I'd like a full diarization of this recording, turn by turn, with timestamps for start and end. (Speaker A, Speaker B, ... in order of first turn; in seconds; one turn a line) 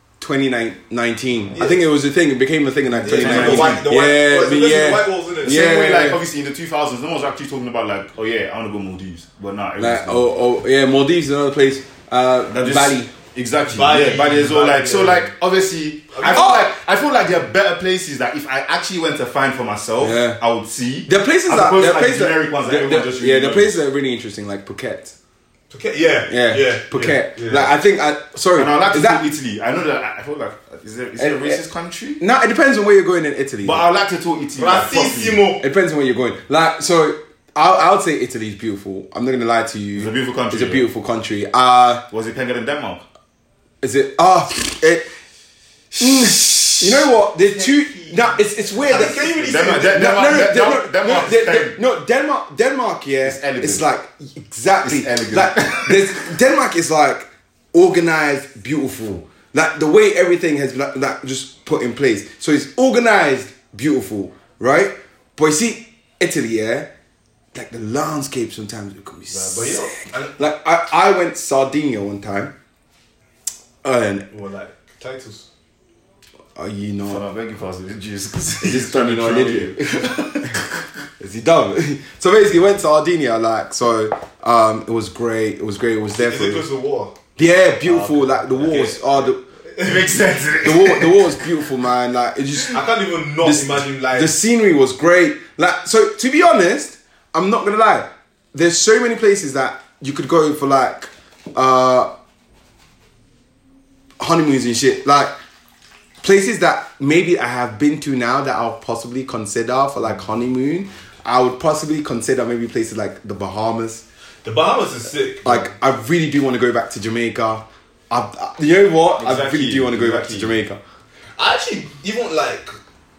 Speaker A: 0.2-6.2
Speaker B: 1.5-1.8
Speaker B: 3.0-5.8
Speaker C: 3.0-3.8
Speaker C: 5.5-10.3
Speaker A: 9.8-13.1
Speaker C: 12.5-23.7
Speaker B: 13.6-15.3
Speaker B: 16.1-16.5
Speaker A: 16.3-16.7
Speaker A: 20.0-20.4
Speaker A: 21.1-25.1
Speaker B: 25.7-27.7
Speaker A: 26.3-29.2
Speaker C: 28.6-32.2
Speaker A: 31.2-31.6
Speaker A: 32.2-33.9
Speaker C: 33.6-35.4
Speaker B: 34.6-35.6
Speaker A: 35.6-42.0
Speaker C: 40.0-40.9
Speaker C: 42.1-43.0
Speaker A: 43.8-45.1
Speaker A: 46.0-49.2
Speaker C: 46.5-47.0
Speaker B: 47.5-50.4
Speaker C: 49.0-51.8
Speaker A: 49.9-66.9
Speaker C: 53.2-53.8
Speaker C: 54.8-56.3
Speaker A: 67.5-72.5
Speaker B: 69.3-70.4
Speaker A: 73.8-74.3
Speaker B: 74.3-75.5
Speaker A: 76.6-77.2
Speaker C: 77.0-80.7
Speaker A: 78.6-80.2
Speaker A: 81.2-86.6
Speaker B: 86.2-87.1
Speaker A: 87.4-89.4
Speaker C: 87.8-89.3
Speaker C: 89.8-91.3
Speaker B: 89.8-90.3
Speaker A: 90.6-92.9
Speaker B: 92.7-94.3
Speaker A: 93.4-102.1
Speaker A: 104.2-105.3
Speaker A: 106.2-114.0
Speaker B: 114.4-115.7
Speaker A: 115.5-120.8
Speaker C: 119.2-120.6
Speaker B: 121.4-122.8